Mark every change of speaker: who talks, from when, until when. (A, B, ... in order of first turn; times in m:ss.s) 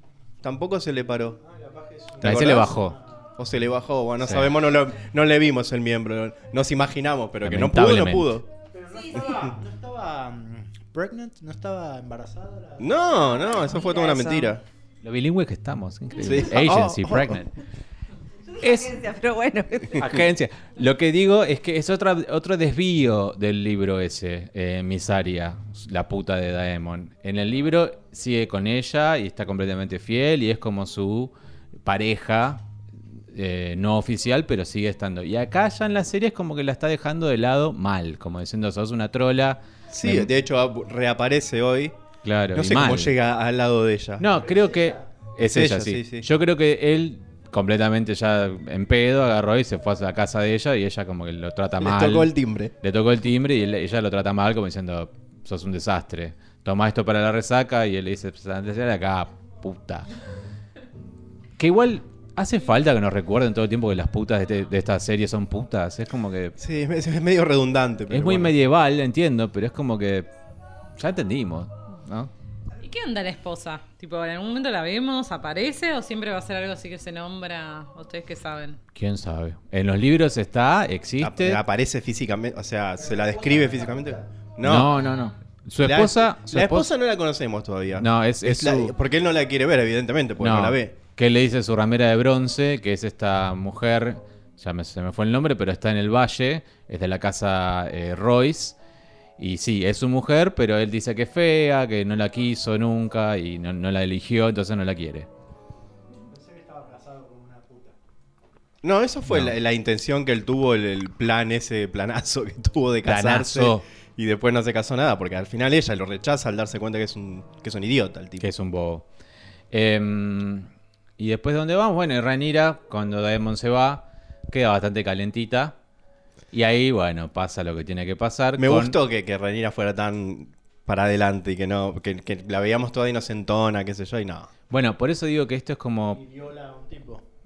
0:00.4-0:01.4 A
0:01.4-0:03.1 B
0:02.2-0:02.8 A
0:02.2-0:02.9 C
0:03.4-0:08.4 A
0:07.4-0:08.3 C
0:08.7-0:14.2 B
0:09.1-0:09.6 A
0:12.8-0:14.6 A
0:13.4-0:14.5 D
0:15.0-0:17.5 C
0:16.2-0:17.4 A
0:18.5-0:20.1 D
0:18.6-0:18.9 C
0:20.0-0:31.3 C
0:31.8-0:32.6 C
0:33.3-0:40.3 C
0:39.9-0:41.9 A
0:42.2-0:43.1 C
0:42.5-0:44.2 A
0:44.2-1:00.1 C
0:44.3-0:45.0 B
0:45.4-0:46.2 A
0:51.8-0:52.7 A
1:01.6-1:06.5 C
1:06.6-1:08.5 A
1:08.1-1:10.3 C
1:11.0-1:12.3 C
1:12.8-1:18.8 E
1:18.9-1:21.6 C
1:21.2-1:25.0 A
1:23.0-1:24.3 B
1:24.6-1:26.9 C
1:25.8-1:30.9 A
1:28.0-1:28.9 C
1:30.4-1:38.8 C
1:39.4-1:45.3 C
1:46.2-1:47.9 B
1:48.8-1:58.4 A
1:49.3-1:49.5 C
1:53.0-1:53.8 C
1:58.4-1:59.0 C
1:59.7-2:00.7 C
2:01.2-2:05.8 C
2:06.5-2:09.0 C
2:08.6-2:14.5 A
2:14.7-2:16.2 C
2:16.1-2:17.2 B